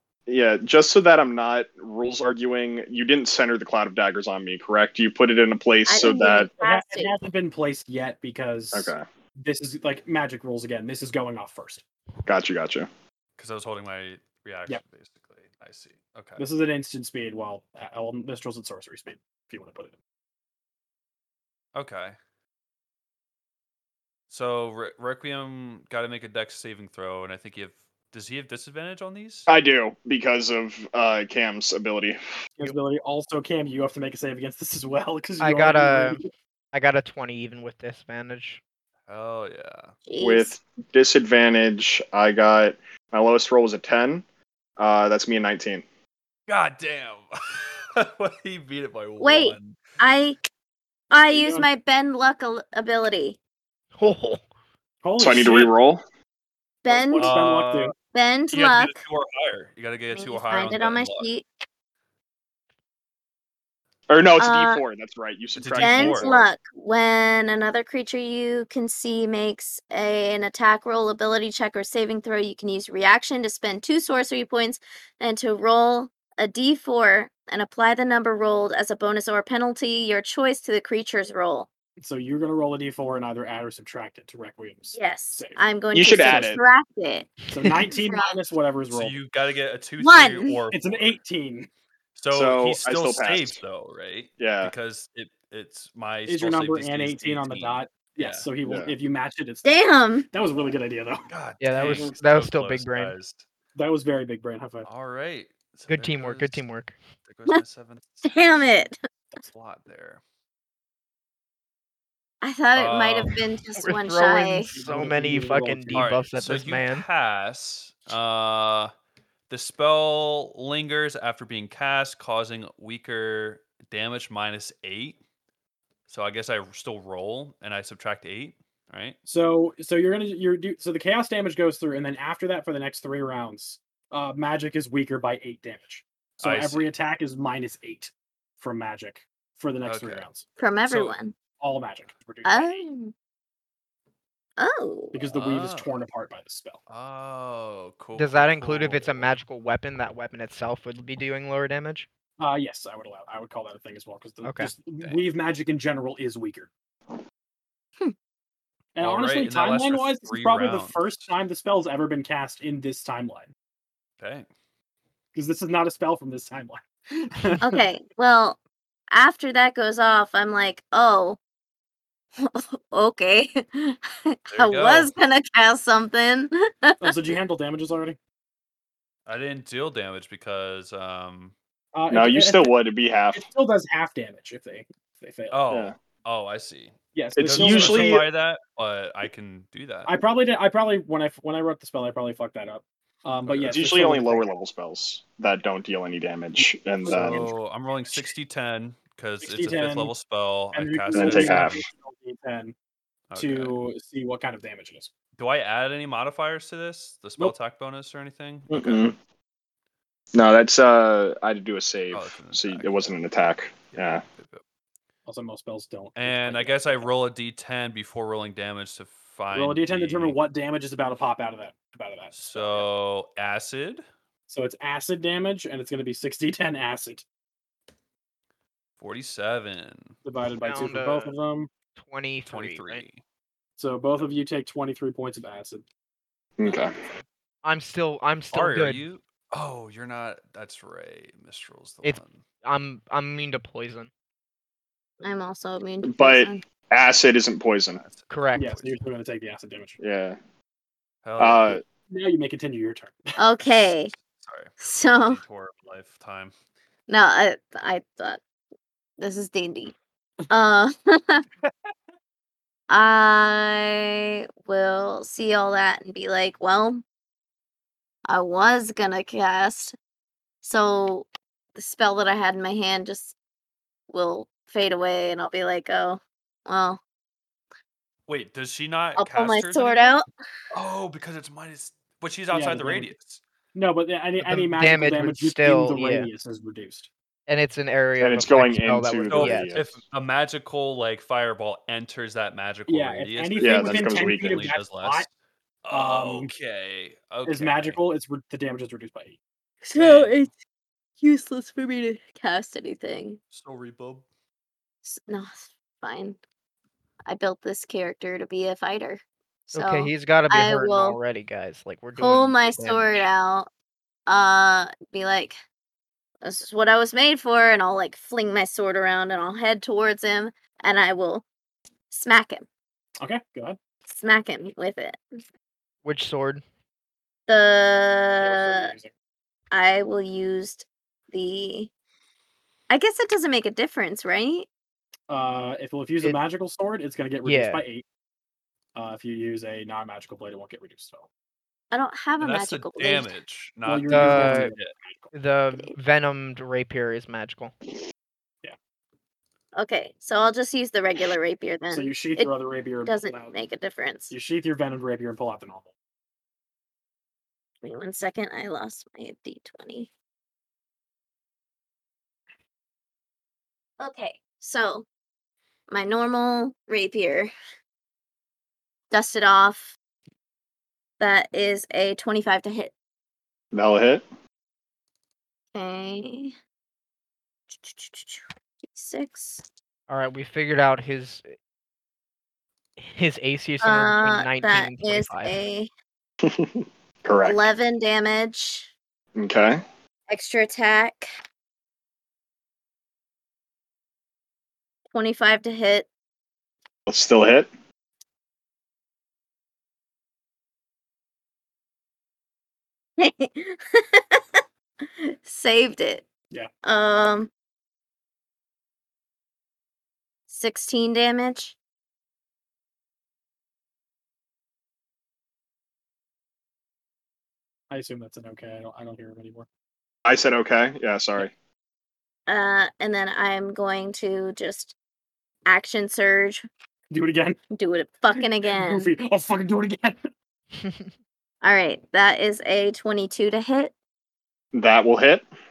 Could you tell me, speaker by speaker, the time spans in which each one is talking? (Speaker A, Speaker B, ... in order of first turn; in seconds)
Speaker A: 0.3-6.5, 8.7-9.0, 12.2-12.9, 29.5-32.2, 40.2-44.2, 44.8-45.8, 55.2-56.0, 64.1-66.5, 85.9-86.6, 92.3-93.6, 94.4-94.7, 98.6-98.9, 182.1-183.5, 185.7-185.9, 187.3-188.2, 193.7-197.5, 201.1-201.8, 208.7-209.2, 210.3-214.2, 236.6-237.0, 246.0-248.0, 250.0-250.4, 251.4-251.8, 288.2-289.9, 293.6-294.6, 373.7-374.2, 386.4-387.6, 389.4-389.8, 397.1-397.7, 420.2-421.5, 434.7-435.4
Speaker B: 5.8-7.2, 40.0-40.5, 49.2-50.4, 51.1-53.4, 56.8-57.4, 58.1-59.0, 60.1-61.5, 64.4-64.8, 65.8-81.7, 84.9-87.3, 87.9-88.4, 90.0-90.6, 99.6-100.3, 108.2-109.0, 112.4-114.7, 140.6-141.3, 142.4-143.1, 144.6-145.2, 167.6-168.6, 169.1-171.4, 172.4-177.2, 245.2-246.6, 253.4-254.1, 254.8-255.4, 257.1-258.4, 259.2-259.9, 260.5-261.4, 262.9-267.0, 268.3-270.0, 270.6-273.3, 274.1-277.0, 279.2-280.2, 299.8-300.5, 301.2-303.4, 305.0-306.4, 307.2-311.2, 312.1-313.7, 314.3-315.6, 316.4-321.4, 322.1-322.6, 324.1-325.2, 327.5-328.9, 329.7-331.9, 332.9-334.7, 341.9-343.4, 349.7-354.3, 357.8-360.1, 364.0-365.1, 365.9-367.5, 369.1-369.9, 371.2-372.9, 375.7-376.6, 377.8-379.6, 383.8-385.9, 387.4-388.9, 390.3-391.3, 395.1-396.1, 403.2-404.4, 405.1-406.2, 406.8-407.5, 410.5-411.8, 422.5-424.9, 425.6-426.6, 427.7-429.1, 431.6-433.9
Speaker C: 6.6-11.8, 16.4-20.0, 32.6-36.3, 51.3-51.7, 55.0-55.7, 56.9-57.9, 82.0-85.6, 87.5-89.2, 90.7-91.7, 96.2-99.7, 100.3-101.3, 103.8-104.9, 114.6-116.1, 129.3-140.4, 141.6-142.8, 145.1-146.8, 152.4-156.7, 158.9-163.5, 165.3-167.8, 177.0-178.2, 181.9-182.7, 183.3-185.6, 187.1-188.2, 190.1-194.5, 197.0-197.5, 199.4-200.1, 200.7-202.7, 203.3-205.1, 215.2-217.1, 219.5-222.9, 224.5-227.2, 230.2-231.7, 233.8-235.8, 248.5-250.0, 252.1-253.4, 282.5-283.1, 283.7-287.1, 292.9-295.3, 295.9-296.5, 297.4-299.4, 323.2-323.8, 328.4-329.1, 335.3-338.0, 338.9-341.3, 343.9-345.3, 351.9-353.6, 354.3-355.9, 417.9-419.7, 427.1-427.6, 428.4-430.2
Speaker D: 13.4-16.4, 21.7-22.1, 24.3-29.5, 39.1-40.0, 46.5-49.8, 57.2-57.9, 58.5-61.3, 65.6-66.3, 88.9-91.2, 92.2-98.5, 101.3-103.4, 104.8-106.6, 107.2-108.3, 109.3-110.2, 112.8-113.4, 115.9-118.9, 119.5-125.2, 126.1-129.2, 136.4-136.8, 139.8-140.3, 140.9-141.1, 145.3-145.9, 146.9-149.3, 159.0-161.0, 164.2-164.5, 174.5-175.1, 179.2-181.5, 185.5-190.1, 193.4-193.8, 197.0-201.8, 203.3-203.7, 205.4-209.1, 212.1-213.2, 213.9-214.6, 216.2-220.4, 222.3-224.0, 229.0-230.2, 232.4-233.2, 238.5-242.4, 247.9-249.0, 251.2-251.8, 254.4-256.5, 278.3-280.1, 280.7-283.4, 289.3-295.3, 295.8-298.0, 300.0-300.3, 303.5-304.2, 342.4-344.9
Speaker E: 35.4-36.2, 36.7-38.6, 54.0-54.4, 101.6-103.1, 105.9-107.0, 113.8-117.0, 148.2-152.1, 154.4-154.7, 230.6-231.3, 231.9-233.0, 237.6-239.0, 242.0-244.1, 248.3-248.7, 284.4-286.3, 287.5-289.7, 309.7-313.2, 326.0-326.6, 337.4-337.8, 344.1-344.7, 345.3-347.7, 380.1-381.5, 383.0-385.6, 430.7-431.1